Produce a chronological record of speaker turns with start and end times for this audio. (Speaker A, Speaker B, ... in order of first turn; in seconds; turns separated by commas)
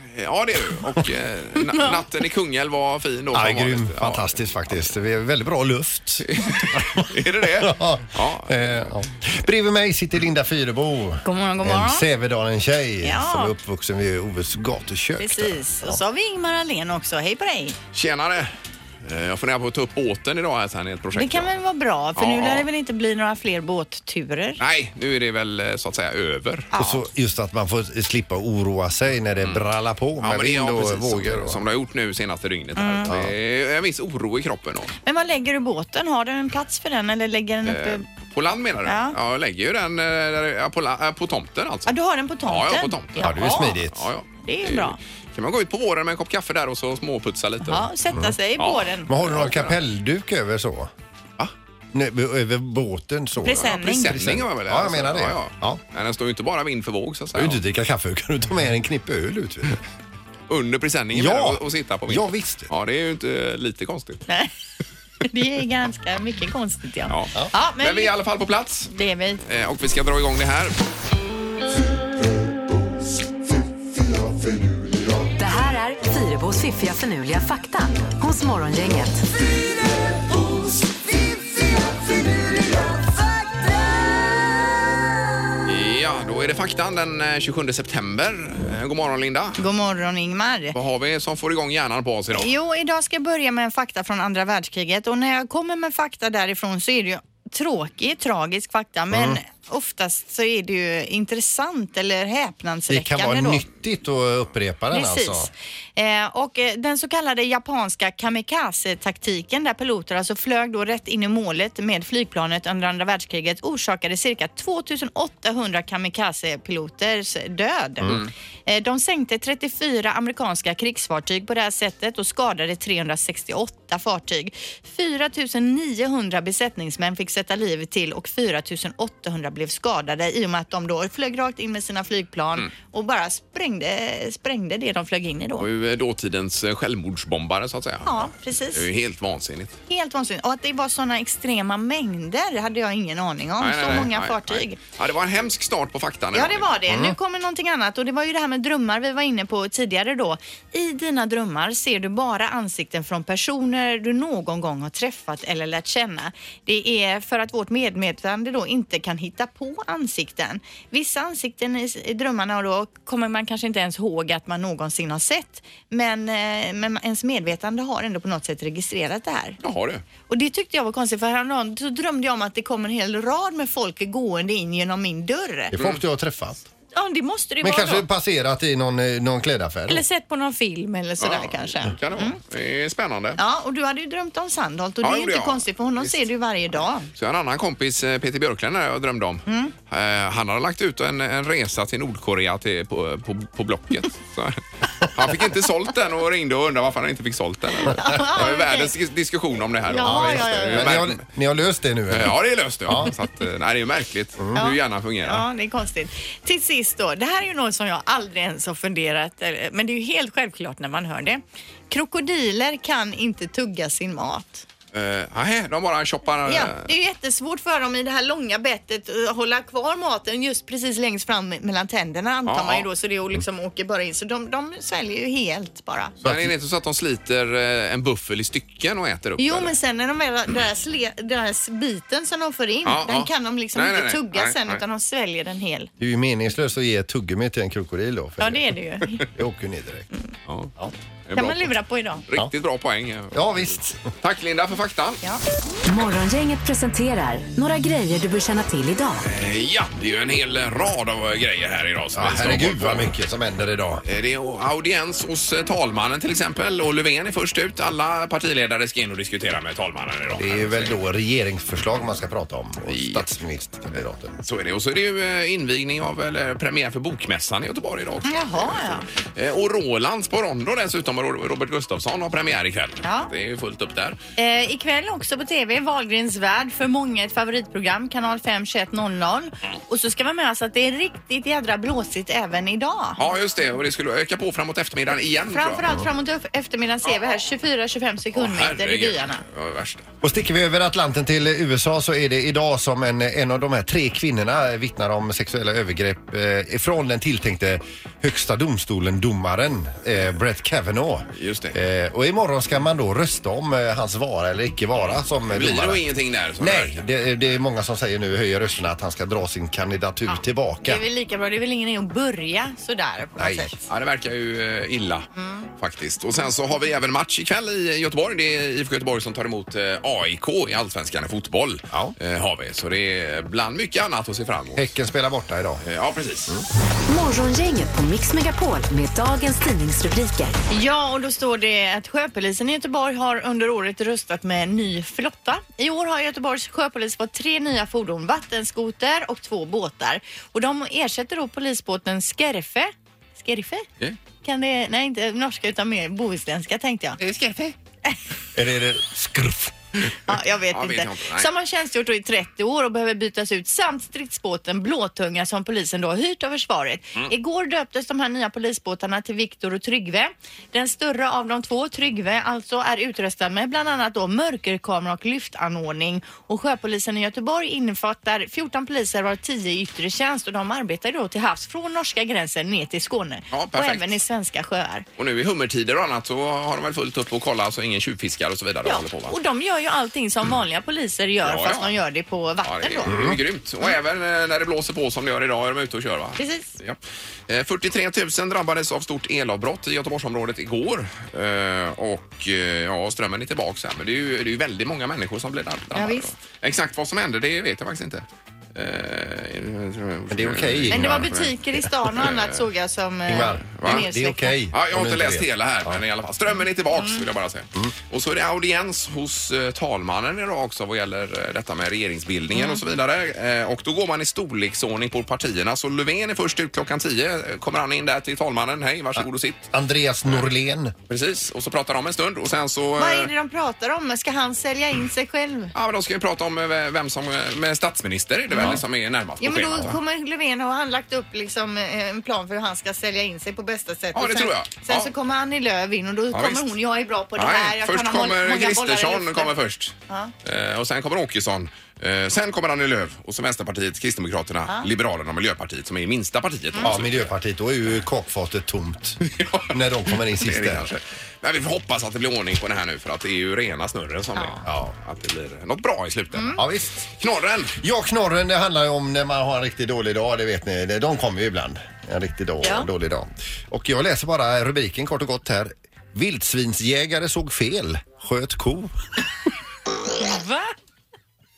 Speaker A: 0.1-4.3, Speaker B: 1.6-2.0, Speaker C: 3.3-16.0, Speaker A: 6.2-8.7, Speaker B: 11.2-12.1, Speaker B: 13.0-13.5, Speaker B: 15.2-17.8, Speaker A: 17.9-18.5, Speaker A: 19.0-21.5, Speaker B: 21.1-24.6, Speaker A: 22.1-22.7, Speaker A: 24.6-26.7, Speaker B: 26.7-27.0, Speaker C: 26.8-31.6, Speaker A: 30.2-34.9, Speaker B: 32.8-33.1, Speaker C: 33.1-33.3, Speaker B: 35.0-38.0, Speaker A: 37.6-47.9, Speaker B: 38.9-39.1, Speaker B: 41.9-43.8, Speaker C: 43.2-44.1, Speaker B: 44.4-45.0, Speaker B: 47.6-49.1, Speaker A: 48.6-49.8, Speaker C: 49.1-50.9, Speaker C: 51.9-55.8, Speaker B: 53.4-54.1, Speaker A: 53.5-57.6, Speaker C: 57.3-59.8, Speaker A: 60.5-64.2, Speaker C: 61.1-62.7, Speaker B: 65.3-68.1, Speaker A: 67.1-68.9, Speaker B: 68.9-69.4, Speaker A: 69.4-70.8, Speaker D: 75.3-79.2, Speaker A: 85.7-89.6, Speaker B: 89.6-90.7, Speaker A: 90.7-92.5, Speaker B: 92.3-103.6, Speaker C: 99.1-99.4, Speaker C: 102.9-105.5, Speaker B: 104.9-135.7, Speaker C: 118.0-118.3, Speaker A: 118.0-118.3, Speaker A: 135.6-139.8, Speaker B: 138.0-138.8, Speaker B: 139.9-144.8, Speaker A: 143.6-146.7, Speaker B: 146.3-169.6, Speaker C: 146.9-147.2, Speaker A: 169.6-170.0, Speaker B: 170.3-175.7, Speaker C: 175.7-176.7, Speaker A: 175.8-176.0, Speaker B: 176.9-178.0, Speaker C: 177.6-180.0, Speaker B: 179.9-182.4, Speaker A: 181.2-183.4, Speaker B: 183.4-187.1, Speaker A: 185.0-186.1, Speaker A: 187.1-201.2, Speaker B: 189.5-189.7, Speaker B: 197.9-198.9, Speaker B: 199.9-201.0, Speaker C: 200.0-202.3, Speaker A: 202.1-205.4, Speaker C: 202.8-203.1, Speaker B: 204.5-214.7, Speaker A: 214.9-216.9, Speaker B: 216.5-226.1, Speaker A: 222.5-222.9, Speaker C: 226.2-226.5, Speaker A: 226.2-229.7, Speaker B: 229.4-235.9, Speaker A: 232.8-234.8, Speaker C: 236.0-238.6, Speaker B: 238.4-239.2, Speaker C: 239.3-240.1, Speaker A: 241.3-241.7, Speaker B: 241.3-242.2, Speaker A: 242.3-245.2, Speaker C: 243.3-244.1, Speaker D: 245.8-249.3, Speaker A: 249.2-253.1, Speaker C: 252.1-254.0, Speaker A: 254.0-261.0, Speaker C: 260.3-264.3, Speaker A: 262.9-263.3, Speaker A: 264.4-274.2, Speaker B: 268.2-269.1, Speaker B: 273.0-273.3, Speaker B: 274.4-283.2, Speaker A: 283.2-285.9, Speaker B: 285.5-289.4, Speaker A: 288.3-290.1, Speaker C: 290.2-306.0, Speaker A: 301.3-301.8, Speaker A: 305.5-306.9, Speaker C: 306.6-311.0, Speaker B: 310.3-313.8, Speaker C: 313.4-313.7, Speaker A: 313.9-324.9, Speaker B: 315.4-315.7, Speaker C: 324.8-325.8, Speaker A: 325.8-326.6, Speaker D: 327.1-330.5, Speaker B: 330.7-343.9, Speaker B: 344.4-347.2, Speaker A: 347.2-347.8, Speaker C: 348.5-349.8, Speaker B: 350.3-375.1, Speaker A: 350.7-351.5, Speaker A: 373.5-374.1, Speaker A: 375.2-379.3, Speaker B: 378.9-383.1, Speaker A: 381.4-381.9, Speaker A: 382.6-401.5, Speaker C: 383.1-383.4, Speaker B: 386.4-386.7, Speaker B: 395.9-396.3, Speaker C: 400.3-401.9, Speaker B: 400.9-404.6, Speaker A: 402.1-402.6, Speaker C: 403.3-406.0, Speaker A: 403.4-404.1, Speaker A: 404.7-419.7, Speaker B: 406.9-407.2, Speaker B: 412.5-412.8, Speaker C: 419.2-420.9, Speaker A: 421.1-423.3, Speaker B: 423.0-425.7, Speaker A: 425.7-429.9, Speaker B: 429.4-439.5, Speaker A: 434.1-435.1, Speaker A: 436.3-436.7, Speaker A: 437.4-447.3, Speaker C: 446.8-450.9, Speaker A: 449.3-456.6, Speaker B: 456.3-456.6, Speaker C: 456.6-457.1, Speaker A: 457.2-457.7, Speaker C: 457.8-468.9, Speaker B: 462.6-462.9, Speaker B: 470.1-470.7